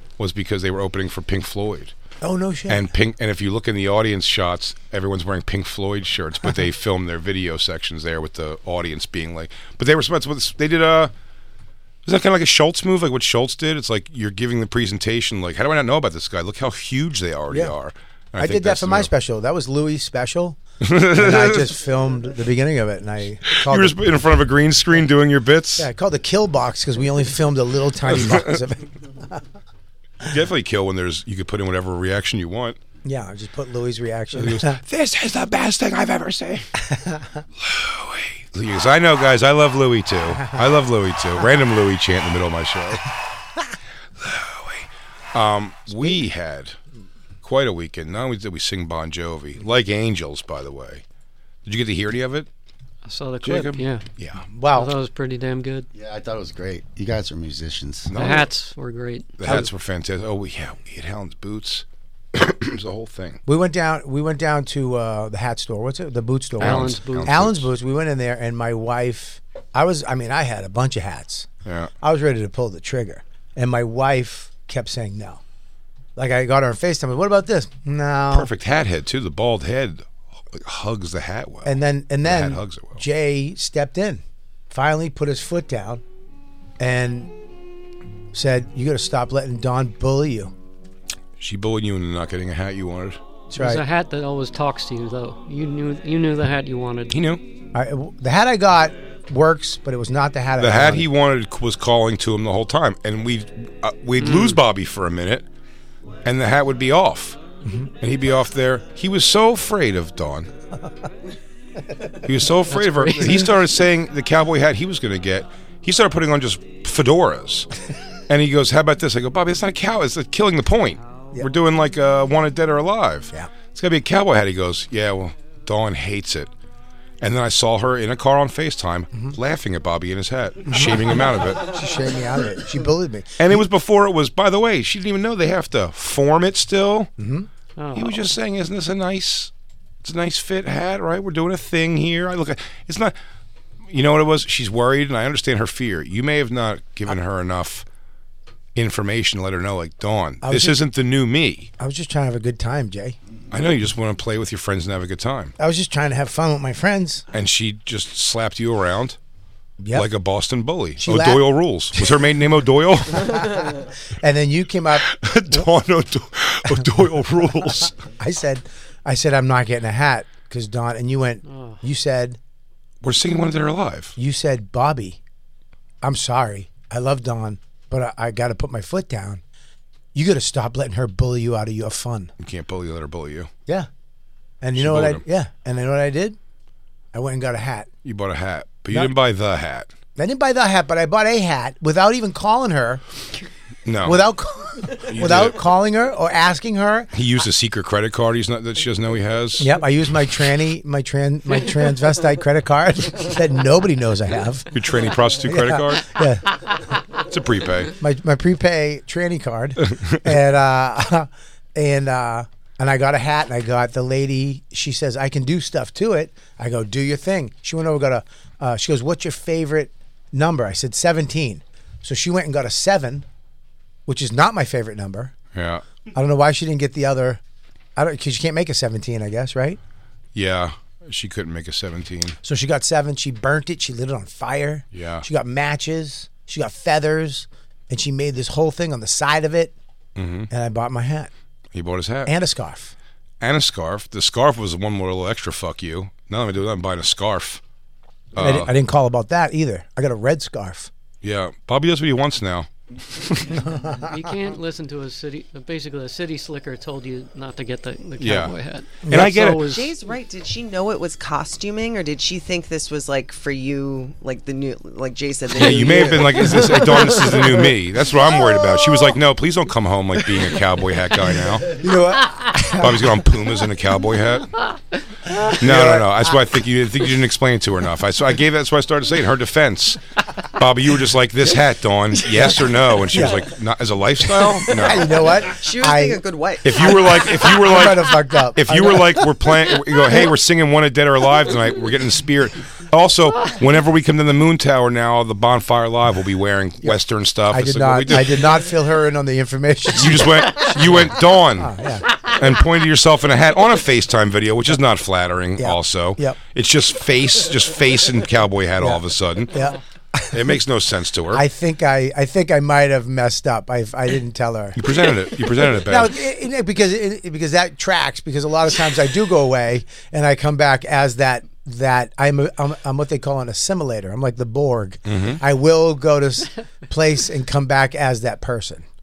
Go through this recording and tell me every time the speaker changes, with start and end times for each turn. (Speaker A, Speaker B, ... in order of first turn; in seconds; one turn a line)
Speaker A: 0.2-1.9
Speaker B: 2.2-2.9
Speaker A: 2.7-11.1
Speaker A: 12.0-19.1
Speaker B: 17.5-17.8
Speaker B: 18.4-24.0
Speaker A: 20.8-21.7
Speaker A: 23.5-25.9
Speaker B: 25.8-29.4
Speaker A: 28.1-28.6
Speaker A: 30.2-32.8
Speaker B: 33.0-34.8
Speaker A: 34.3-36.7
Speaker B: 36.8-37.4
Speaker A: 37.6-43.1
Speaker A: 44.2-46.8
Speaker A: 47.4-51.0
Speaker A: 51.6-52.5
Speaker C: 53.0-54.0
Speaker A: 53.4-54.4
Speaker B: 54.5-54.9
Speaker C: 54.7-55.9
Speaker D: 56.0-58.1
Speaker A: 58.1-58.5
Speaker C: 58.1-59.7
Speaker A: 59.4-63.4
Speaker B: 63.5-71.5
Speaker C: 66.6-67.4
Speaker A: 66.6-67.7
Speaker A: 71.6-71.9
Speaker B: 72.0-75.4
Speaker B: 76.2-78.5
Speaker A: 78.3-83.0
Speaker B: 81.6-86.0
Speaker B: 86.8-87.3
Speaker B: 88.3-90.5
Speaker A: 91.4-93.2
Speaker B: 93.5-93.8
Speaker C: 93.6-97.2
Speaker A: 97.1-97.4
Speaker B: 97.7-101.1
Speaker A: 100.6-105.5
Speaker C: 104.2-104.6
Speaker A: 106.2-107.4
Speaker B: 107.6-107.9
Speaker A: 108.0-110.5
Speaker A: 112.2-117.7
Speaker C: 112.7-113.4
Speaker A: 118.3-126.5
Speaker A: 127.2-131.7
Speaker B: 130.7-133.6
Speaker A: 133.4-137.1
Speaker B: 137.2-137.5
Speaker C: 137.8-138.2
Speaker A: 137.9-139.5
Speaker A: 140.0-143.1
Speaker A: 143.9-147.8
Speaker A: 148.8-151.7
Speaker B: 150.4-150.8
Speaker B: 151.8-153.2
Speaker A: 153.5-155.5
Speaker B: 155.6-157.2
Speaker A: 157.3-159.2
Speaker B: 159.8-160.1
Speaker A: 159.9-163.7
Speaker B: 161.0-161.4
Speaker B: 163.2-165.7
Speaker A: 165.0-167.9
Speaker B: 167.6-172.4
Speaker C: 171.4-171.8
Speaker A: 173.0-174.1
Speaker B: 174.2-175.2
Speaker B: 176.0-179.4
Speaker B: 180.1-182.3
Speaker A: 182.4-183.5
Speaker B: 184.6-186.4
Speaker A: 184.8-185.2
Speaker B: 187.1-187.9
Speaker A: 188.0-189.9
Speaker B: 190.2-193.0
Speaker A: 193.9-194.2
Speaker B: 194.0-197.1
Speaker A: 195.0-195.6
Speaker A: 197.1-199.8
Speaker B: 199.6-204.8
Speaker A: 204.7-206.2
Speaker B: 205.4-206.5
Speaker A: 207.2-207.9
Speaker B: 208.0-223.2
Speaker A: 209.9-210.3
Speaker B: 224.1-225.3
Speaker A: 225.5-225.8
Speaker B: 226.1-227.4
Speaker B: 228.0-229.8
Speaker A: 230.3-232.4
Speaker B: 232.4-239.8
Speaker A: 234.9-235.2
Speaker A: 240.2-240.5
Speaker B: 240.5-241.3
Speaker A: 241.7-242.3
Speaker B: 242.2-242.9
Speaker A: 243.4-247.6
Speaker A: 248.3-248.7
Speaker B: 248.4-250.9
Speaker A: 251.2-253.6
Speaker B: 253.8-254.1
Speaker C: 254.0-259.9
Speaker A: 258.2-258.5
Speaker B: 259.0-259.4
Speaker A: 259.1-259.7
Speaker E: 259.7-267.7
Speaker A: 265.5-271.8
Speaker C: 265.6-266.1
Speaker B: 271.7-273.2
Speaker A: 272.7-274.5
Speaker B: 275.4-276.3
Speaker A: 275.6-280.0
Speaker A: 280.5-285.3
Speaker B: 283.1-283.5
Speaker B: 284.6-286.2
Speaker E: 285.5-287.5
Speaker A: 286.6-298.5
Speaker B: 286.8-289.5
Speaker B: 297.5-302.1
Speaker A: 300.0-301.7
Speaker A: 302.3-309.5
Speaker B: 305.6-306.4
Speaker B: 308.8-310.4
Speaker A: 310.3-311.4
Speaker B: 311.3-314.9
Speaker A: 314.8-316.2
Speaker B: 315.8-328.9
Speaker A: 325.1-325.4